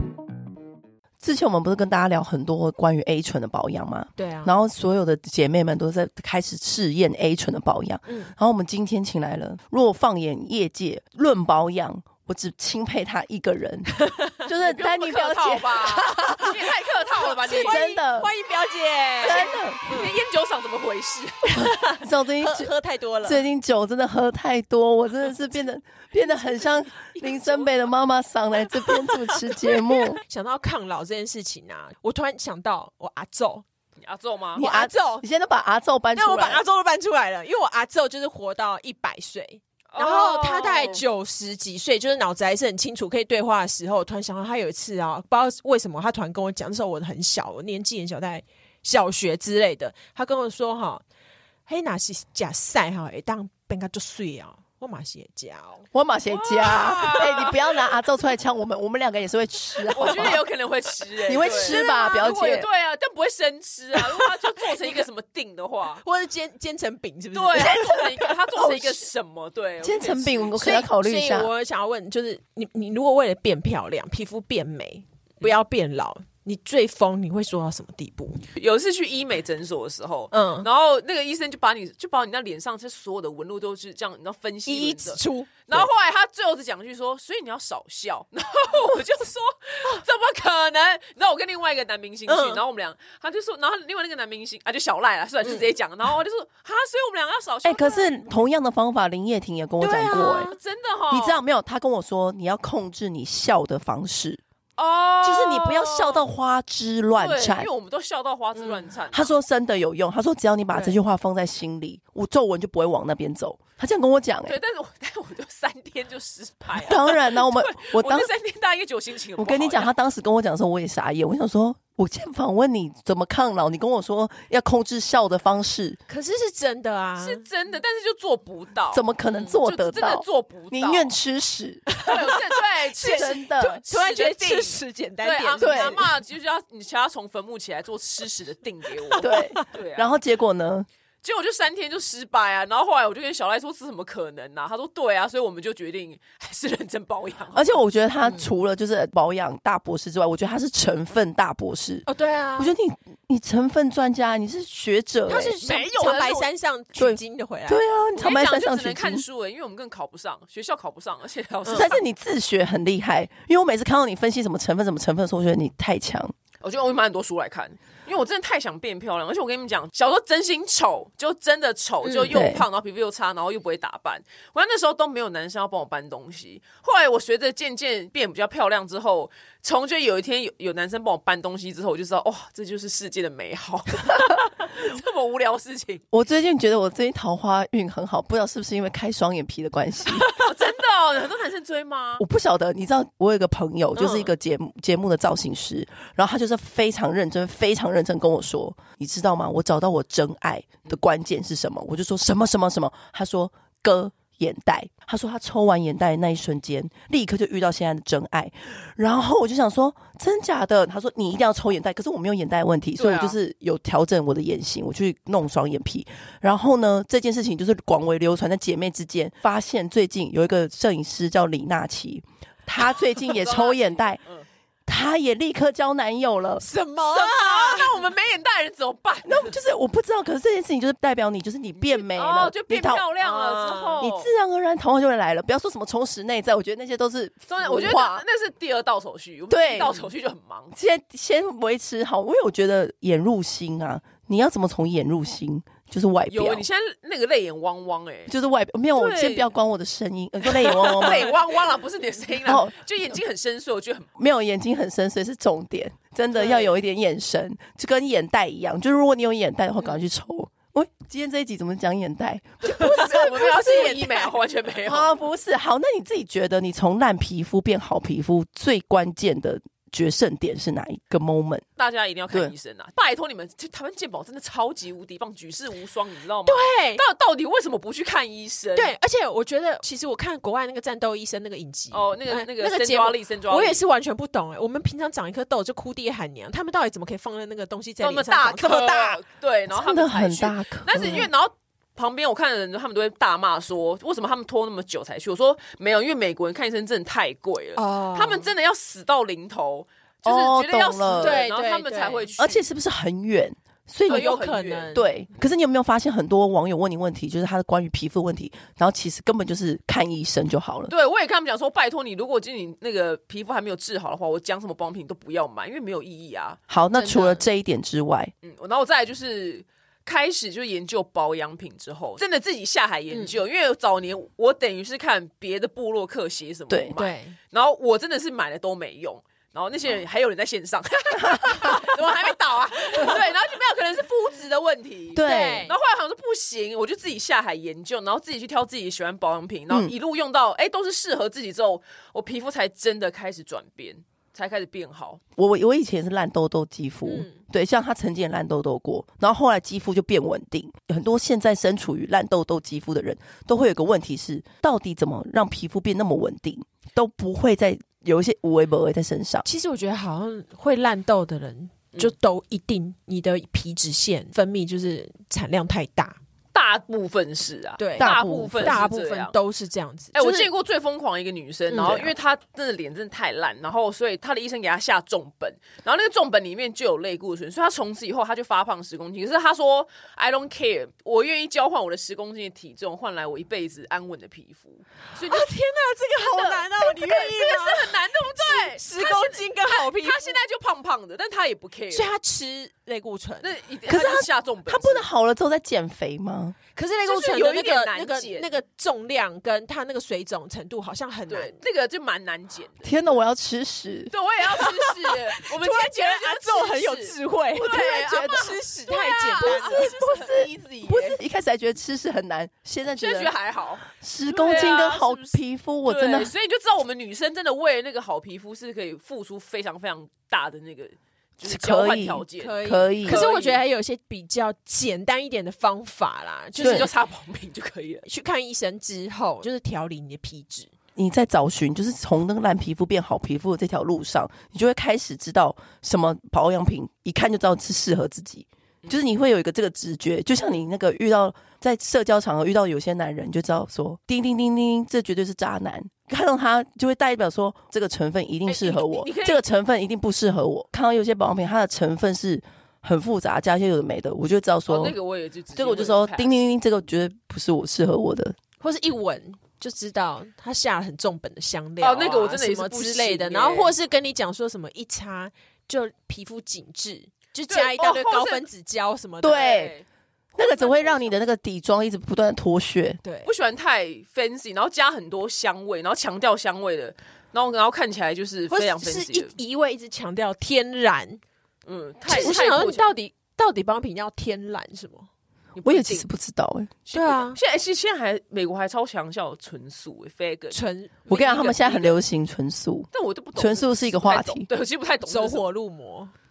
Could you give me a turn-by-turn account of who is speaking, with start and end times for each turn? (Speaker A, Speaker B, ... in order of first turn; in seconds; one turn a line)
Speaker A: 1.2-16.8
Speaker B: 4.2-4.5
Speaker B: 8.1-8.3
Speaker B: 14.0-14.4
Speaker C: 14.6-18.3
Speaker B: 17.2-20.1
Speaker A: 17.5-18.3
Speaker A: 19.2-19.8
Speaker C: 19.2-21.7
Speaker B: 21.5-23.4
Speaker A: 22.0-22.7
Speaker A: 23.2-30.2
Speaker C: 26.6-27.8
Speaker B: 28.8-33.6
Speaker C: 34.0-34.6
Speaker A: 34.5-36.6
Speaker B: 34.6-35.2
Speaker B: 36.1-51.0
Speaker C: 39.9-41.0
Speaker B: 51.6-55.9
Speaker A: 55.9-60.4
Speaker C: 56.3-57.8
Speaker C: 59.9-66.0
Speaker A: 61.3-62.7
Speaker B: 61.5-62.4
Speaker B: 66.0-68.3
Speaker C: 67.3-70.5
Speaker A: 67.6-68.0
Speaker A: 68.5-69.1
Speaker A: 69.8-71.5
Speaker B: 70.6-78.4
Speaker C: 78.5-98.3
Speaker B: 80.3-80.7
Speaker B: 84.7-85.9
Speaker B: 92.3-92.6
Speaker A: 97.6-100.5
Speaker B: 99.8-100.6
Speaker C: 100.2-101.4
Speaker A: 101.1-104.4
Speaker C: 104.8-106.3
Speaker A: 105.2-107.7
Speaker C: 107.1-109.3
Speaker A: 109.1-114.6
Speaker C: 114.5-119.9
Speaker A: 116.7-118.3
Speaker A: 119.4-126.0
Speaker B: 126.1-127.4
Speaker C: 127.2-131.1
Speaker A: 128.9-131.9
Speaker B: 131.9-132.4
Speaker C: 132.0-140.2
Speaker B: 133.0-136.1
Speaker A: 133.0-133.8
Speaker A: 135.6-136.1
Speaker B: 139.1-139.7
Speaker A: 139.2-140.9
Speaker C: 141.2-147.8
Speaker A: 147.5-155.6
Speaker B: 152.1-152.7
Speaker B: 155.3-158.3
Speaker C: 155.3-156.5
Speaker A: 156.9-159.2
Speaker C: 158.2-162.0
Speaker B: 161.6-161.9
Speaker A: 161.7-166.3
Speaker C: 166.6-186.0
Speaker B: 172.0-172.3
Speaker A: 172.2-172.6
Speaker A: 186.1-190.4
Speaker C: 190.2-192.2
Speaker A: 192.2-224.2
Speaker B: 193.9-194.3
Speaker C: 213.0-213.4
Speaker C: 223.0-224.5
Speaker A: 224.8-226.6
Speaker B: 226.6-228.0
Speaker C: 227.0-229.5
Speaker A: 229.2-233.1
Speaker C: 231.8-234.3
Speaker B: 233.2-234.0
Speaker A: 234.0-238.2
Speaker C: 237.5-240.7
Speaker A: 239.5-240.1
Speaker A: 240.7-246.6
Speaker C: 246.3-248.3
Speaker A: 248.3-251.3
Speaker C: 248.9-249.5
Speaker C: 250.5-254.1
Speaker A: 252.4-252.7
Speaker A: 254.2-263.3
Speaker C: 256.4-256.6
Speaker B: 262.6-264.3
Speaker C: 262.7-265.1
Speaker A: 264.8-271.6
Speaker C: 271.8-278.9
Speaker B: 276.4-277.0
Speaker B: 278.7-289.2
Speaker C: 281.9-283.8
Speaker C: 288.0-302.7
Speaker A: 289.7-291.3
Speaker B: 291.0-291.3
Speaker B: 297.8-298.5
Speaker A: 300.2-301.4
Speaker B: 301.1-302.3
Speaker A: 302.4-304.3
Speaker B: 304.1-305.1
Speaker C: 304.1-305.0
Speaker A: 304.9-310.9
Speaker C: 310.9-316.6
Speaker A: 316.7-318.3
Speaker B: 316.9-317.4
Speaker C: 318.4-345.2
Speaker A: 326.7-326.9
Speaker B: 326.9-327.4
Speaker A: 335.1-335.7
Speaker B: 335.2-335.7
Speaker A: 345.4-359.4
Speaker B: 347.0-347.4
Speaker B: 359.4-366.2
Speaker C: 366.5-369.3
Speaker B: 367.8-370.5
Speaker A: 368.0-368.8
Speaker C: 370.1-385.6
Speaker B: 371.7-372.1
Speaker B: 385.1-390.4
Speaker C: 386.1-392.1
Speaker B: 391.9-393.5
Speaker C: 393.4-395.1
Speaker A: 393.9-396.6
Speaker B: 396.7-401.6
Speaker C: 397.1-398.5
Speaker C: 401.3-403.1
Speaker A: 402.8-404.1
Speaker C: 404.1-411.2
Speaker B: 404.4-409.9
Speaker A: 407.8-408.5
Speaker A: 409.4-413.3
Speaker C: 412.9-423.6
Speaker A: 413.9-416.3
Speaker A: 421.4-423.2
Speaker B: 422.4-426.9
Speaker C: 426.6-428.1
Speaker A: 426.6-426.9
Speaker B: 428.0-430.7
Speaker A: 430.9-454.9
Speaker C: 448.5-449.4
Speaker C: 454.7-456.3
Speaker A: 455.5-458.4
Speaker B: 458.6-469.6
Speaker C: 461.8-463.7
Speaker C: 467.5-468.4
Speaker A: 469.2-469.7
Speaker C: 469.2-469.9
Speaker A: 470.4-473.0
Speaker C: 470.6-471.0
Speaker B: 470.6-471.0
Speaker B: 473.0-473.3
Speaker C: 473.2-479.3
Speaker B: 478.5-481.2
Speaker C: 481.6-482.9
Speaker B: 482.1-485.1
Speaker C: 485.6-486.1
Speaker A: 485.6-486.8
Speaker C: 486.9-490.6
Speaker B: 486.9-487.4
Speaker B: 490.5-491.8
Speaker A: 491.1-494.5
Speaker C: 491.1-492.0
Speaker C: 492.9-495.4
Speaker B: 495.0-496.1